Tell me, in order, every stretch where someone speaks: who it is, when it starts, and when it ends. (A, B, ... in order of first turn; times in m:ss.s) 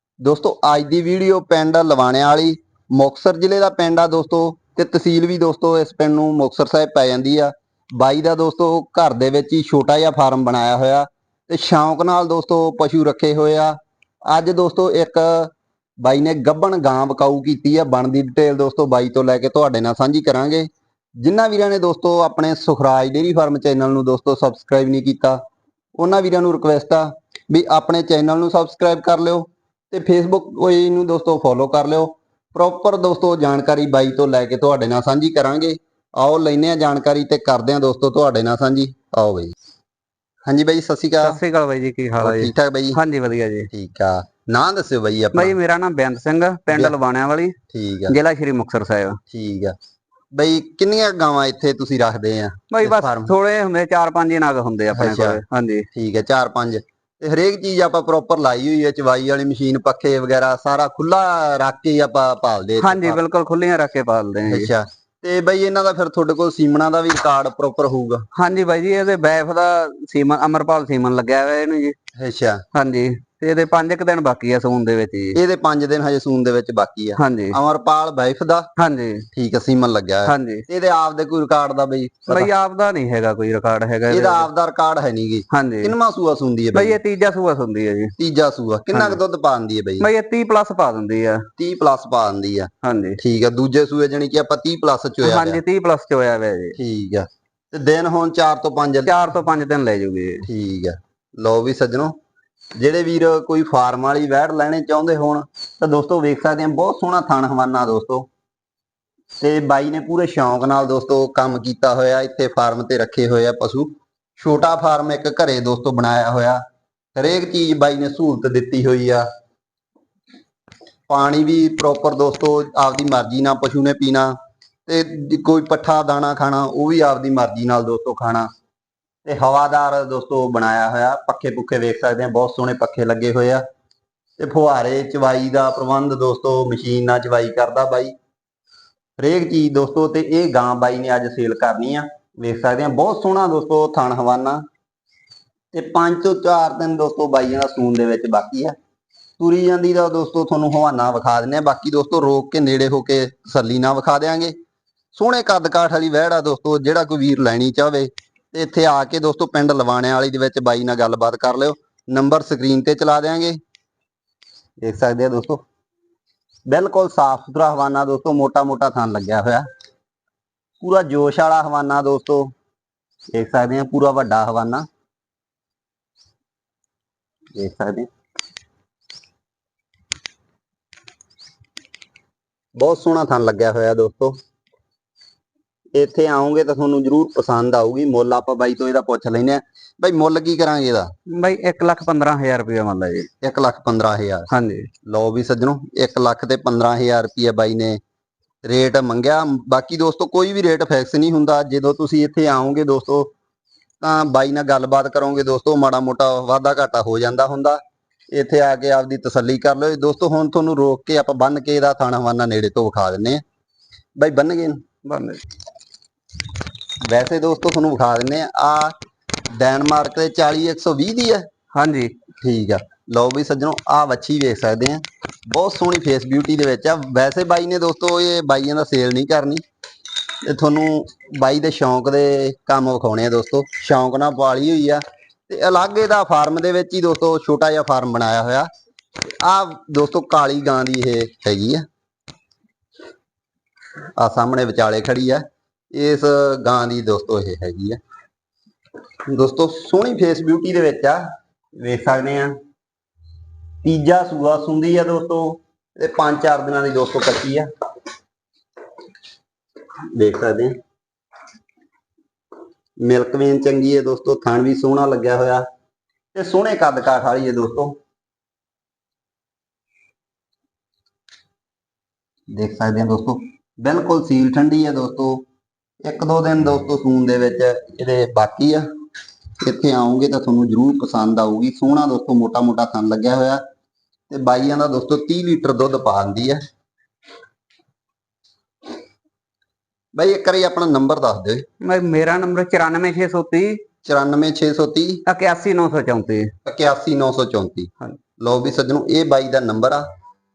0:00.2-0:25.4 A
0:26.0-0:39.5 A
0:40.4-0:41.4 A
0:41.2-0:43.7 B
0:42.2-0:43.0 A
0:43.7-0:45.6 A
0:45.3-0:47.6 B
0:47.7-0:48.2 A
0:48.1-0:49.2 B
0:49.3-0:49.8 A
0:50.3-0:53.3 A
0:52.7-0:55.9 B
0:54.9-0:55.4 A
0:55.9-1:03.2 A
1:02.8-1:04.7 B
1:04.5-1:08.2 A
1:08.3-1:12.0 B
1:12.2-1:12.6 A
1:12.7-1:15.4 B
1:15.4-1:18.7 A
1:17.2-1:17.6 B
1:18.8-1:19.3 B
1:19.3-1:22.5 A
1:20.3-1:20.6 B
1:22.3-1:24.5 B
1:24.1-1:27.0 A
1:25.5-1:25.9 B
1:26.7-1:28.2 B
1:28.2-1:30.1 A
1:28.9-1:29.2 B
1:30.0-1:31.5 B
1:31.6-1:35.6 A
1:32.8-1:33.2 B
1:35.2-1:36.8 B
1:36.8-1:39.1 A
1:39.1-1:40.5 B
1:40.4-1:42.2 A
1:42.8-1:48.3 A
1:49.4-1:56.6 A
1:57.2-1:59.3 A
2:01.1-2:08.5 A
2:09.2-2:13.6 A
2:14.4-2:18.1 A
2:19.2-2:24.6 A
2:25.7-2:28.8 A
2:29.4-2:34.5 A
2:35.1-2:43.6 A
2:44.8-2:45.6 A
2:46.7-2:49.7 A
2:50.8-2:52.5 A
2:53.3-2:54.9 A
2:57.6-2:58.1 A
3:02.8-3:04.4 A
3:05.9-3:11.1 A
3:11.3-3:13.3 B
3:13.4-3:14.5 A
3:14.5-3:14.9 B
3:15.0-3:18.0 A
3:18.6-3:23.3 A
3:24.0-3:33.4 A
3:34.2-3:34.8 A
3:35.0-3:35.4 B
3:37.0-3:39.0 A
3:39.5-3:41.5 A
3:41.7-3:42.2 B
3:42.4-3:49.6 A
3:50.4-3:58.7 A
3:59.3-4:01.9 A
4:04.2-4:08.0 A
4:09.3-4:11.2 A
4:11.8-4:12.6 A
4:13.8-4:17.7 A
4:20.1-4:20.8 A
4:23.0-4:25.7 A
4:26.3-4:28.0 A
4:32.5-4:35.4 A
4:36.0-4:38.9 A
4:39.6-4:43.6 A
4:44.3-4:46.6 A
4:50.1-4:51.7 A
4:51.8-4:53.8 B
4:54.0-4:55.2 A
4:55.3-4:56.5 B
4:56.6-5:00.1 A